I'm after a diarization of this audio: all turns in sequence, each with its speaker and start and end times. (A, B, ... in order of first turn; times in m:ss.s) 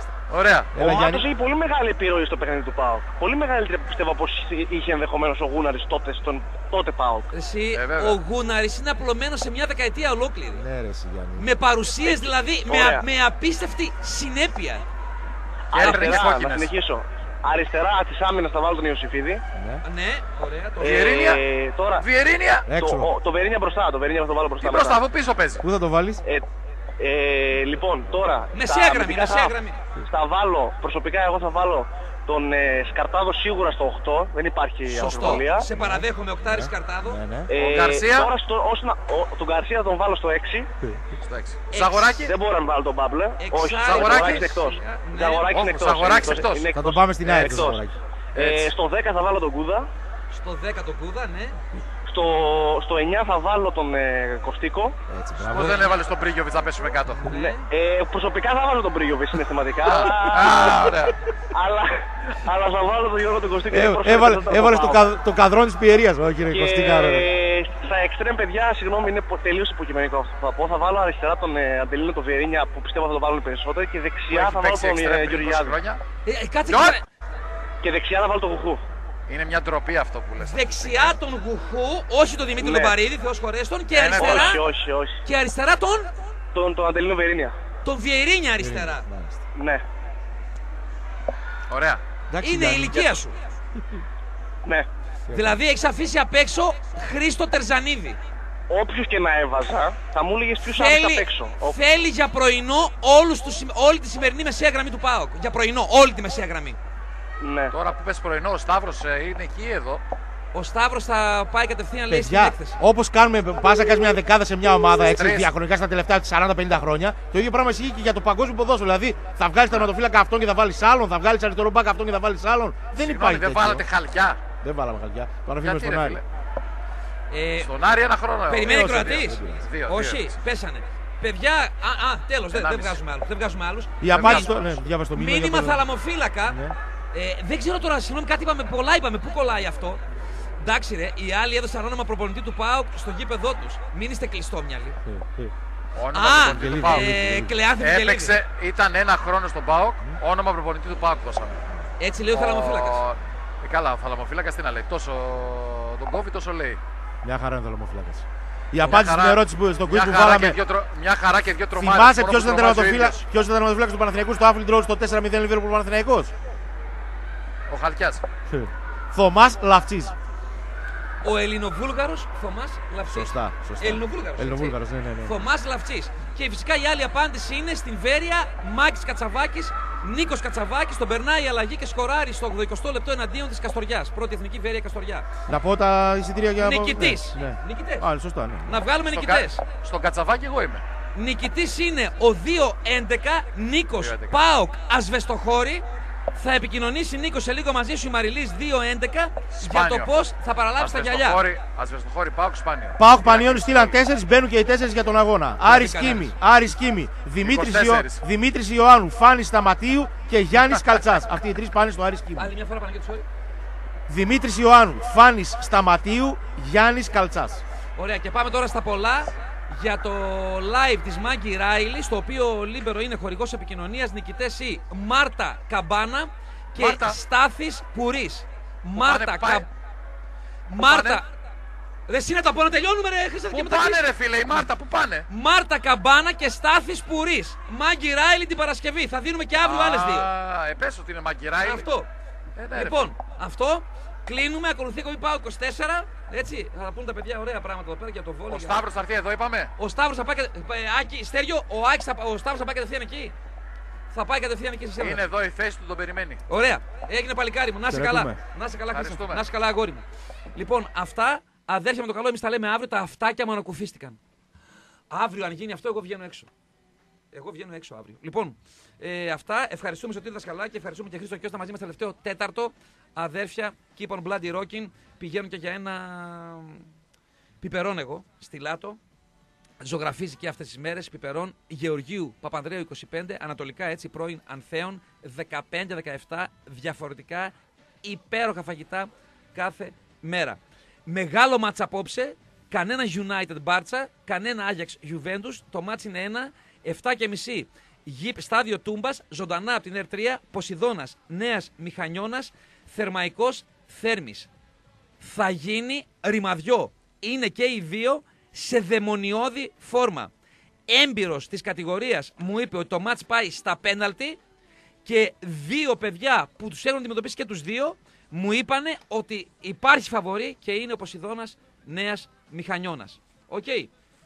0:00.3-0:00.7 A
0:00.7-0:01.2 B
0:00.8-0:07.3 C
0:07.3-0:10.6 D
0:07.7-0:08.2 A
0:10.6-0:11.5 B
0:11.4-0:14.8 D
0:12.0-0:13.0 C
0:15.7-0:16.7 A
0:15.7-0:19.4 C
0:15.8-0:16.2 D
0:19.5-0:19.8 B
0:19.8-0:21.1 D
0:20.8-0:21.4 A
0:20.8-0:22.1 C
0:22.0-0:22.7 A
0:22.7-0:23.1 B
0:22.7-0:25.0 C
0:24.6-0:25.6 A
0:25.6-0:26.2 B
0:27.0-0:35.7 C
0:28.5-0:29.8 D
0:34.9-0:37.2 D
0:35.7-0:37.5 B
0:37.5-0:40.7 C
0:37.5-0:38.3 A
0:41.2-0:42.3 A
0:41.7-0:42.3 D
0:42.3-0:47.8 C
0:43.4-0:45.5 D
0:43.8-0:44.6 A
0:45.5-0:46.7 A
0:46.7-0:48.0 B
0:47.3-0:47.8 A
0:48.3-0:49.9 C
0:48.4-0:48.7 A
0:50.3-0:51.6 D
0:52.1-0:55.0 C
0:55.1-0:56.0 B
0:55.5-0:57.3 A
0:57.1-0:57.7 D
0:57.3-1:01.0 C
0:59.8-1:01.1 A
1:00.4-1:01.1 B
1:01.5-1:05.1 C
1:03.7-1:07.3 B
1:06.5-1:15.8 C
1:14.3-1:16.0 A
1:16.2-1:17.0 D
1:16.7-1:17.0 A
1:17.8-1:18.8 C
1:19.3-1:21.1 A
1:20.4-1:24.6 D
1:22.6-1:23.0 C
1:23.9-1:24.6 A
1:24.1-1:25.2 C
1:25.2-1:26.1 D
1:26.5-1:27.5 C
1:27.8-1:29.0 D
1:28.6-1:29.4 B
1:29.5-1:29.8 C
1:31.7-1:32.0 A
1:32.3-1:33.2 B
1:32.4-1:33.3 D
1:35.3-1:35.6 B
1:35.3-1:38.2 D
1:38.7-1:41.8 C
1:40.7-1:46.8 D
1:47.4-1:47.7 C
1:47.7-1:50.0 A
1:50.5-1:52.8 D
1:52.1-2:03.8 B
1:55.1-1:55.5 A
2:03.0-2:04.4 A
2:04.6-2:06.2 B
2:05.6-2:06.2 A
2:07.3-2:07.7 D
2:07.6-2:10.3 A
2:08.5-2:14.5 D
2:08.6-2:09.7 B
2:12.5-2:13.0 A
2:14.0-2:15.9 B
2:14.0-2:14.9 A
2:15.1-2:16.6 D
2:16.4-2:16.8 B
2:17.1-2:20.0 D
2:20.6-2:25.0 D
2:25.0-2:25.5 B
2:25.9-2:27.2 A
2:26.1-2:28.4 D
2:26.5-2:27.5 B
2:27.8-2:31.6 A
2:32.0-2:33.0 D
2:32.3-2:36.8 A
2:37.2-2:40.6 B
2:38.8-2:43.2 A
2:41.8-2:46.3 B
2:47.7-2:48.2 A
2:48.5-2:50.1 B
2:51.2-3:05.3 D
2:53.1-2:55.4 B
3:05.5-3:08.8 B
3:06.6-3:08.1 D
3:08.6-3:09.6 D
3:08.9-3:10.8 A
3:11.1-3:21.4 D
3:14.0-3:14.4 A
3:19.6-3:20.2 A
3:20.8-3:24.0 A
3:23.0-3:32.5 B
3:25.6-3:26.3 D
3:27.4-3:28.2 A
3:30.6-3:31.0 A
3:32.4-3:33.2 D
3:34.1-3:37.6 B
3:38.0-3:49.7 D
3:46.8-3:47.2 A
3:48.9-3:49.7 A
3:50.7-3:51.3 D
3:50.8-3:51.2 A
3:52.1-3:54.6 D
3:53.5-3:55.3 A
3:55.3-4:00.3 D
3:59.6-4:01.8 A
4:01.6-4:02.1 D
4:02.6-4:03.1 A
4:02.7-4:08.8 D
4:08.5-4:09.7 A
4:09.8-4:13.3 D
4:14.1-4:15.3 D
4:15.0-4:16.4 A
4:16.5-4:20.0 D
4:17.9-4:18.4 B
4:18.9-4:19.4 A
4:20.5-4:24.2 D
4:25.1-4:26.5 D
4:27.3-4:36.8 D
4:37.6-4:39.0 D
4:39.8-5:04.5 D
5:05.2-5:10.3 D
5:10.9-5:14.4 D
5:15.0-5:23.9 D